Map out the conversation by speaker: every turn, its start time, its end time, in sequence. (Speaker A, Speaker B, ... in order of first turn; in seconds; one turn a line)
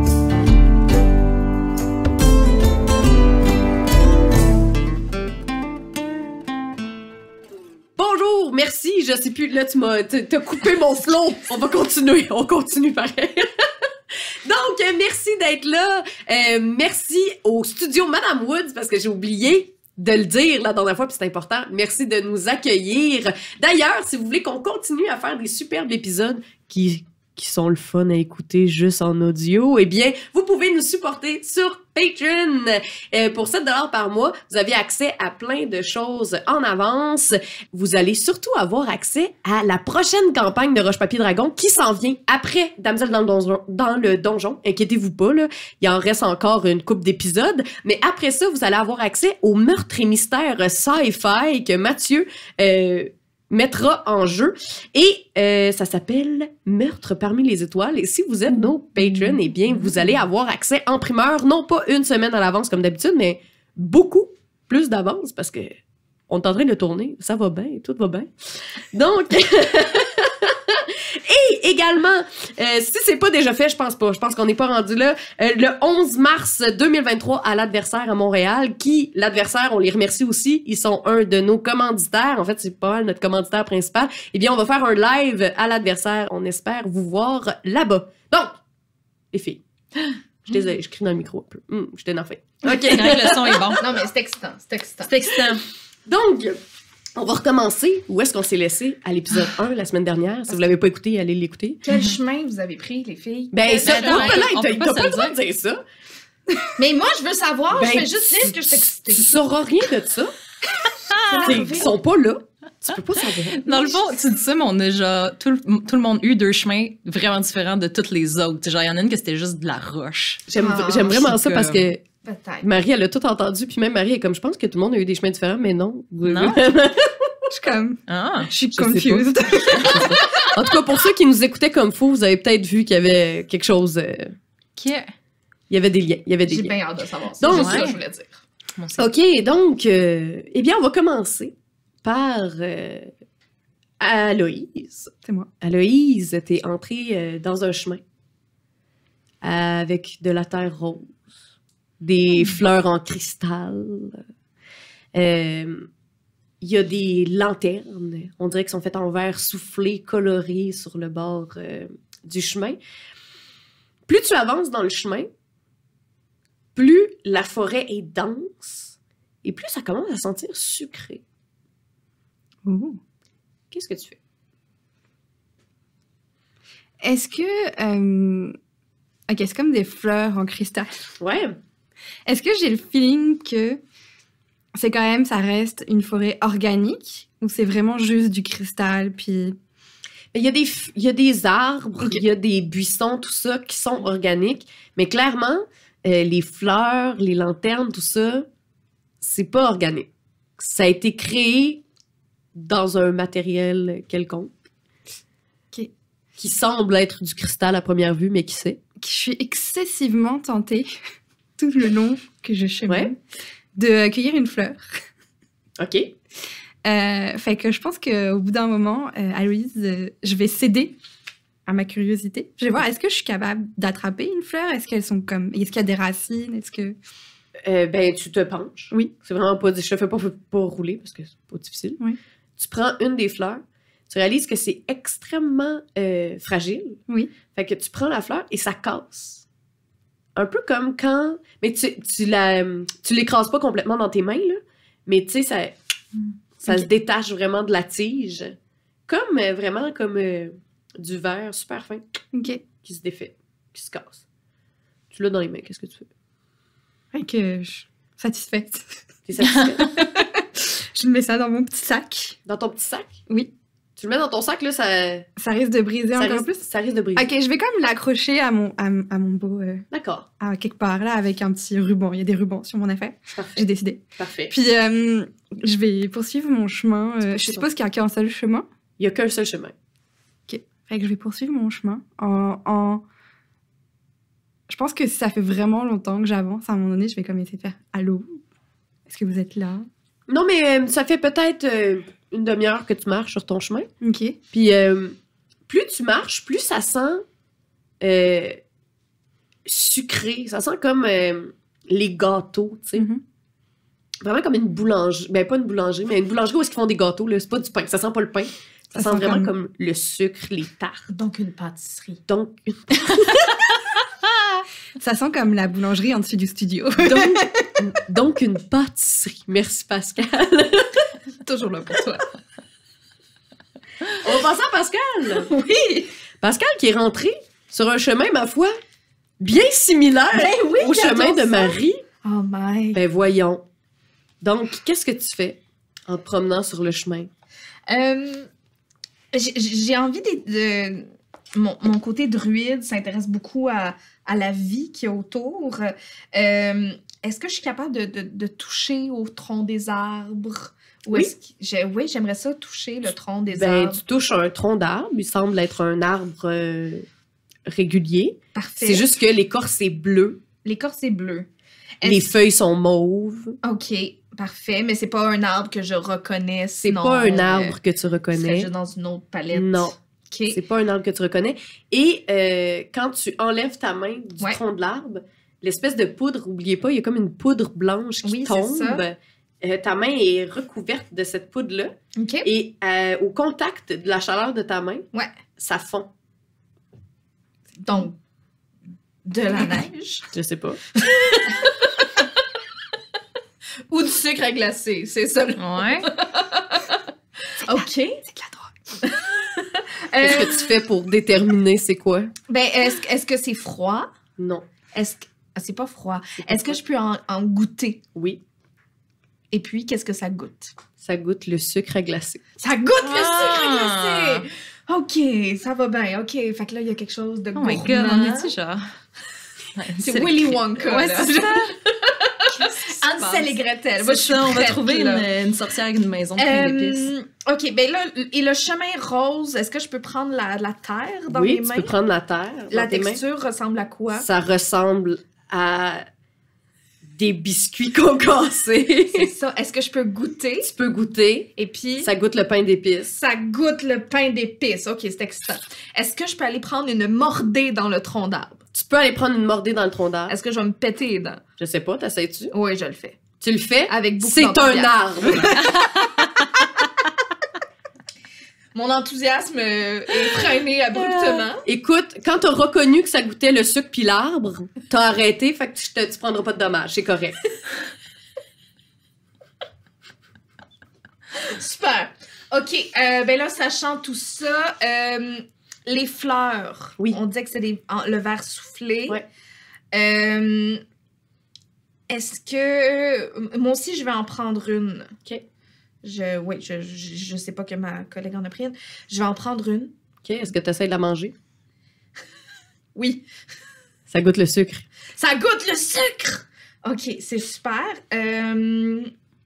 Speaker A: 8.0-13.5
Speaker A: 14.4-65.8
Speaker B: 58.5-59.4
Speaker A: 66.3-68.3
Speaker A: 68.9-88.5
Speaker A: 89.3-89.6
Speaker A: 90.4-93.8
Speaker C: 92.6-93.9
Speaker D: 93.8-95.2
Speaker C: 95.0-95.6
Speaker A: 96.1-96.6
Speaker A: 97.2-101.8
Speaker D: 100.5-100.7
Speaker D: 101.8-104.5
Speaker C: 101.9-102.2
Speaker A: 103.5-105.8
Speaker C: 103.8-105.3
Speaker D: 106.8-109.3
Speaker A: 107.7-110.3
Speaker C: 111.1-111.5
Speaker D: 111.2-111.9
Speaker A: 111.3-114.0
Speaker C: 113.5-120.4
Speaker A: 120.5-122.0
Speaker D: 120.5-121.2
Speaker C: 121.1-121.9
Speaker D: 122.2-122.7
Speaker A: 122.6-127.5
Speaker C: 126.2-126.6
Speaker B: 127.5-130.2
Speaker C: 128.1-128.5
Speaker A: 128.7-134.3
Speaker D: 129.9-130.5
Speaker C: 134.8-135.1
Speaker A: 135.7-136.7
Speaker D: 136.5-138.4
Speaker A: 137.4-137.9
Speaker C: 137.5-138.0
Speaker C: 138.8-139.1
Speaker A: 139.0-141.5
Speaker A: 142.0-143.1
Speaker A: 144.0-148.0
Speaker B: 145.2-145.5
Speaker A: 149.4-151.1
Speaker A: 152.0-154.2
Speaker A: 155.1-155.9
Speaker A: 156.6-162.8
Speaker A: 164.1-165.3
Speaker A: 166.7-171.2
Speaker B: 172.6-173.0
Speaker A: 173.7-174.2
Speaker B: 177.0-178.5
Speaker B: 179.3-181.1
Speaker A: 181.2-181.6
Speaker B: 182.2-183.8
Speaker B: 184.7-189.6
Speaker A: 190.3-198.5
Speaker A: 199.2-201.8
Speaker A: 202.5-204.5
Speaker A: 206.4-208.8
Speaker B: 209.0-210.9
Speaker B: 211.6-213.2
Speaker A: 212.9-213.1
Speaker B: 213.7-214.9
Speaker A: 215.8-216.1
Speaker B: 216.8-220.9
Speaker B: 221.7-226.9
Speaker A: 227.6-232.0
Speaker A: 232.6-237.0
Speaker A: 237.5-239.4
Speaker A: 240.3-245.7
Speaker A: 246.6-248.6
Speaker A: 249.1-252.0
Speaker B: 252.3-252.6
Speaker A: 252.8-254.2
Speaker A: 255.1-256.1
Speaker B: 257.1-259.0
Speaker A: 259.2-259.9
Speaker C: 259.4-259.7
Speaker B: 259.8-262.4
Speaker A: 262.4-263.1
Speaker A: 264.0-265.3
Speaker B: 265.4-266.6
Speaker A: 266.1-267.3
Speaker B: 267.1-269.9
Speaker A: 269.9-270.3
Speaker B: 270.4-278.6
Speaker A: 273.3-274.5
Speaker A: 277.4-277.7
Speaker A: 279.0-279.7
Speaker B: 280.5-283.0
Speaker B: 284.7-288.4
Speaker B: 289.1-289.9
Speaker A: 290.3-293.9
Speaker B: 294.0-294.4
Speaker A: 294.5-295.1
Speaker A: 295.7-297.2
Speaker A: 298.0-298.6
Speaker A: 299.6-303.1
Speaker B: 302.9-303.2
Speaker A: 304.2-311.1
Speaker B: 308.9-309.5
Speaker D: 311.1-312.2
Speaker A: 312.3-313.6
Speaker B: 315.0-317.7
Speaker A: 317.0-321.1
Speaker D: 321.4-322.3
Speaker A: 324.1-325.5
Speaker D: 325.3-326.1
Speaker A: 326.4-328.8
Speaker A: 329.4-332.0
Speaker D: 330.3-333.0
Speaker A: 332.9-333.6
Speaker A: 334.4-337.3
Speaker D: 337.9-338.5
Speaker D: 339.3-354.0
Speaker A: 353.5-357.1
Speaker A: 357.7-360.4
Speaker D: 358.5-359.1
Speaker D: 360.6-361.5
Speaker D: 362.0-362.3
Speaker A: 362.0-363.6
Speaker D: 363.6-367.8
Speaker A: 366.8-368.7
Speaker D: 368.3-370.6
Speaker A: 369.5-369.9
Speaker A: 370.5-385.1
Speaker D: 378.2-379.0
Speaker D: 382.1-382.5
Speaker A: 385.6-386.1
Speaker D: 387.8-388.1
Speaker D: 389.2-390.3
Speaker A: 390.3-390.8
Speaker D: 390.9-392.2
Speaker D: 393.9-397.0
Speaker C: 395.6-396.1
Speaker D: 397.6-398.2
Speaker B: 397.8-398.7
Speaker D: 399.0-400.7
Speaker A: 400.2-402.3
Speaker D: 402.5-404.1
Speaker A: 404.4-404.6
Speaker D: 404.9-408.0
Speaker A: 406.4-406.8
Speaker A: 408.1-408.4
Speaker D: 409.5-410.7
Speaker A: 411.0-412.4
Speaker D: 412.6-418.5
Speaker C: 413.0-414.4
Speaker C: 417.5-418.9
Speaker C: 419.7-421.8
Speaker D: 420.0-425.2
Speaker C: 423.0-427.1
Speaker D: 426.4-431.9
Speaker A: 431.3-433.2
Speaker D: 432.7-434.2
Speaker A: 434.1-436.0
Speaker A: 437.1-439.3
Speaker D: 439.1-440.7
Speaker A: 440.6-443.2
Speaker D: 441.6-442.1
Speaker D: 443.1-448.6
Speaker A: 448.7-450.3
Speaker D: 450.3-451.4
Speaker A: 451.6-452.5
Speaker D: 452.5-453.2
Speaker A: 453.4-455.6
Speaker D: 453.9-455.8
Speaker C: 455.7-456.3
Speaker D: 458.7-461.6
Speaker A: 461.6-467.4
Speaker D: 471.3-479.2
Speaker D: 479.9-480.8
Speaker D: 482.1-485.1
Speaker D: 486.0-489.9
Speaker A: 490.2-491.3
Speaker D: 492.9-493.2
Speaker A: 494.1-494.8
Speaker D: 495.1-499.1